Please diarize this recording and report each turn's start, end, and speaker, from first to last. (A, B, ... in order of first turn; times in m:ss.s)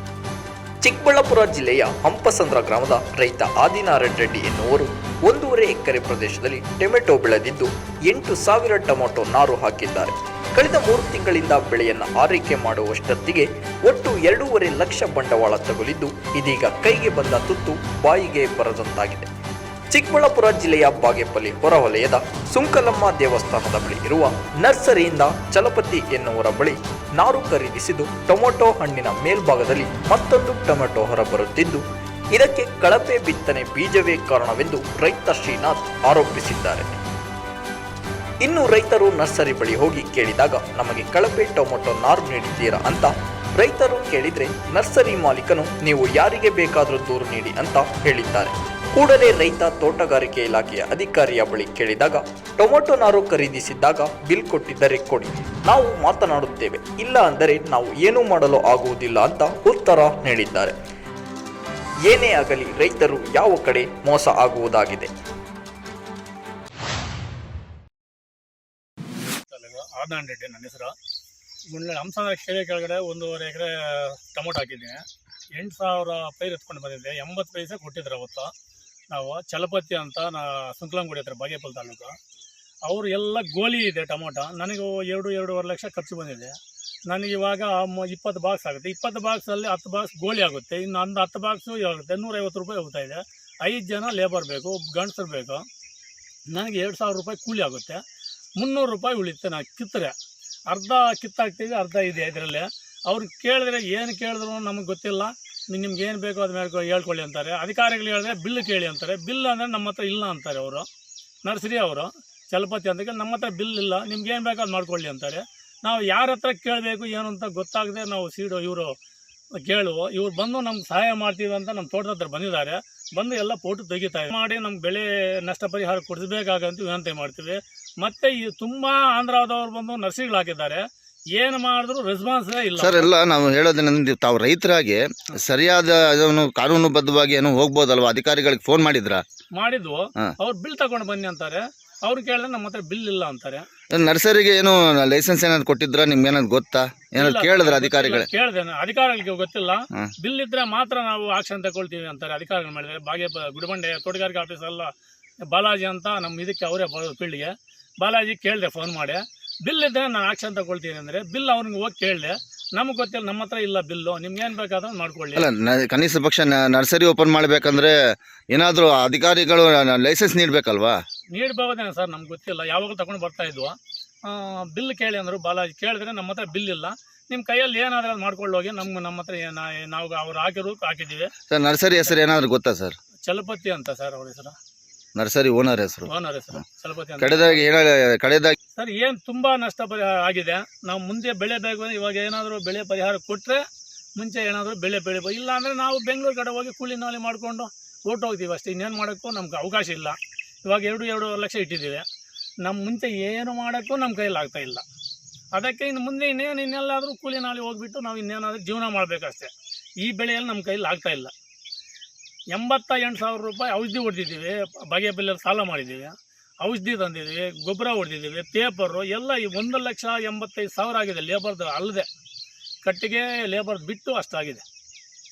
0:00.8-0:19.3 A
0:19.9-0:31.8 A
0:32.3-0:37.0 A
0:38.4-1:00.7 A
1:02.1-1:05.1 A
1:09.3-1:11.0 B
1:11.7-1:18.5 B
1:19.1-1:22.1 B
1:22.8-1:26.6 B
1:27.1-1:35.6 B
1:36.5-1:38.0 B
1:38.6-1:40.1 B
1:40.7-1:50.9 B
1:51.4-1:59.0 B
1:59.6-2:10.8 B
2:11.3-2:13.1 B
2:12.8-2:19.2 C
2:19.5-2:23.7 B
2:23.9-2:28.3 C
2:27.2-2:34.9 B
2:35.4-2:45.4 B
2:45.4-2:48.0 C
2:48.5-2:51.0 C
2:51.3-3:01.3 B
3:01.5-3:03.0 C
3:03.2-3:04.6 B
3:05.2-3:06.1 C
3:06.0-3:07.6 B
3:07.2-3:08.5 C
3:08.7-3:13.6 B
3:14.2-3:22.0 B
3:22.6-3:24.8 B
3:25.5-3:31.3 B
3:32.5-3:42.1 B
3:42.8-3:44.6 B